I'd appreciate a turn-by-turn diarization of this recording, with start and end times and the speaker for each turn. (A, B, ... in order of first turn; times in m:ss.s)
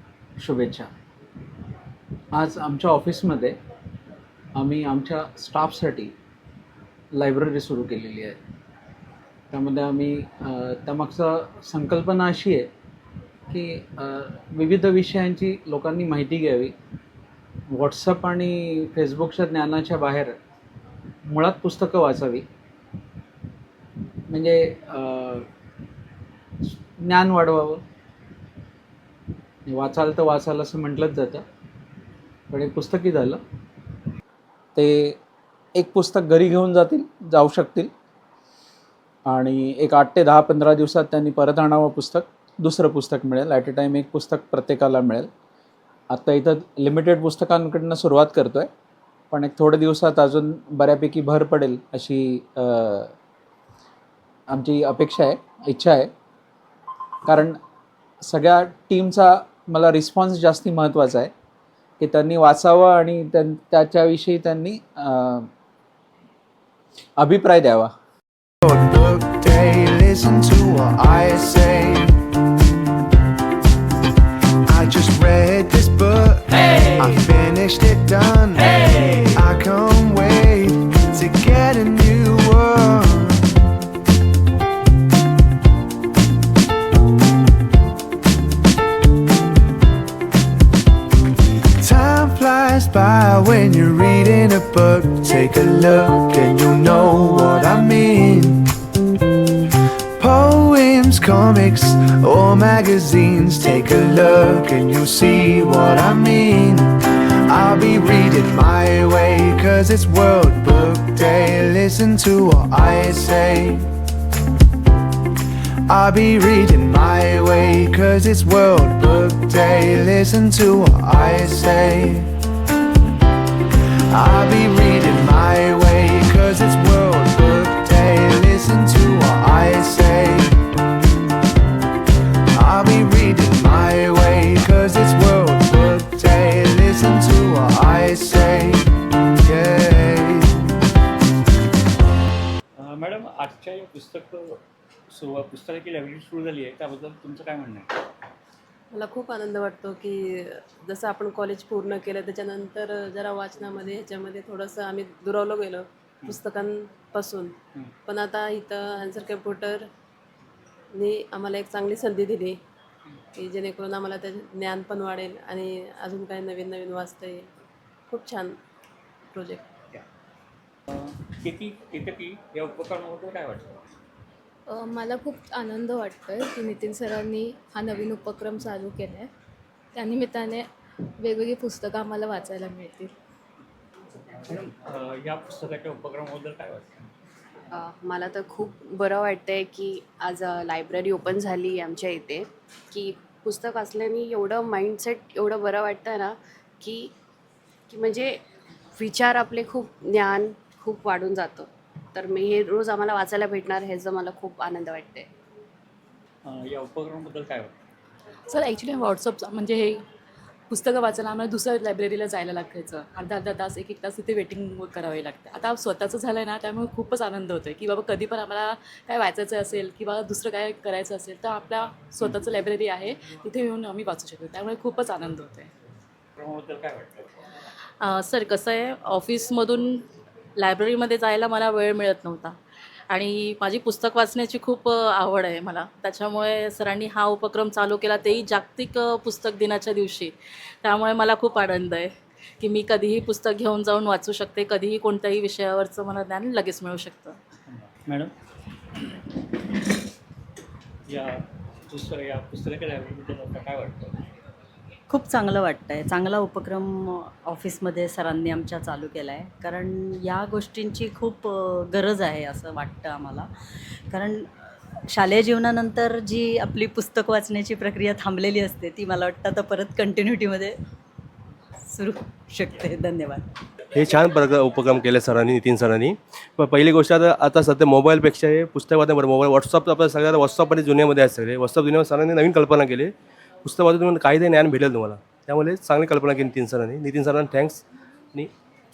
0:00.4-0:00.9 A
0:02.3-0:03.6 A
0:04.6-0:06.1 A
0:07.2-0:08.4 A
0:09.5-0:12.7 A
0:13.5-0:16.7 A
0:17.7-0:20.3 A
0:21.3-0:22.4 A
0:24.3-0:25.5 A
0:26.7-0:27.8 A
0:29.7-0:31.4 A
0:32.5-0:33.4 A
0:34.8-0:35.2 A
0:35.8-0:37.9 A
0:39.3-0:45.3 A
0:46.1-0:48.7 A
0:49.3-0:53.1 A
0:54.5-0:56.1 A
0:57.2-0:57.6 A
0:58.2-1:01.3 A
1:02.0-1:05.5 A
1:07.2-1:07.9 A
1:08.6-1:12.2 B
1:14.7-1:23.6 B
1:31.8-1:38.7 B
1:40.2-1:53.9 B
1:55.9-2:02.3 B
2:04.1-2:10.6 B
2:12.5-2:18.9 B
2:19.4-2:20.8 B
2:22.8-2:27.9 C
2:28.9-2:37.5 D
2:38.1-2:39.9 D
2:40.9-2:42.6 D
2:43.4-2:47.5 D
2:48.1-2:48.6 D
2:49.3-2:49.7 D
2:50.9-2:53.8 C
2:54.7-2:59.3 E
3:00.0-3:00.7 E
3:01.2-3:03.1 E
3:04.5-3:07.1 C
3:07.7-3:17.1 F
3:17.9-3:25.3 F
3:26.4-3:27.7 C
3:28.5-3:30.0 G
3:30.7-3:45.7 G
3:46.4-3:47.3 C
3:48.0-3:50.0 H
3:50.6-3:52.6 H
3:53.1-4:07.4 H
4:07.7-4:08.3 C
4:11.1-4:14.3 C
4:15.1-4:23.5 I
4:24.1-4:24.5 I
4:25.1-4:30.8 I
4:31.9-4:33.5 I
4:33.9-4:43.1 J
4:43.6-4:47.8 J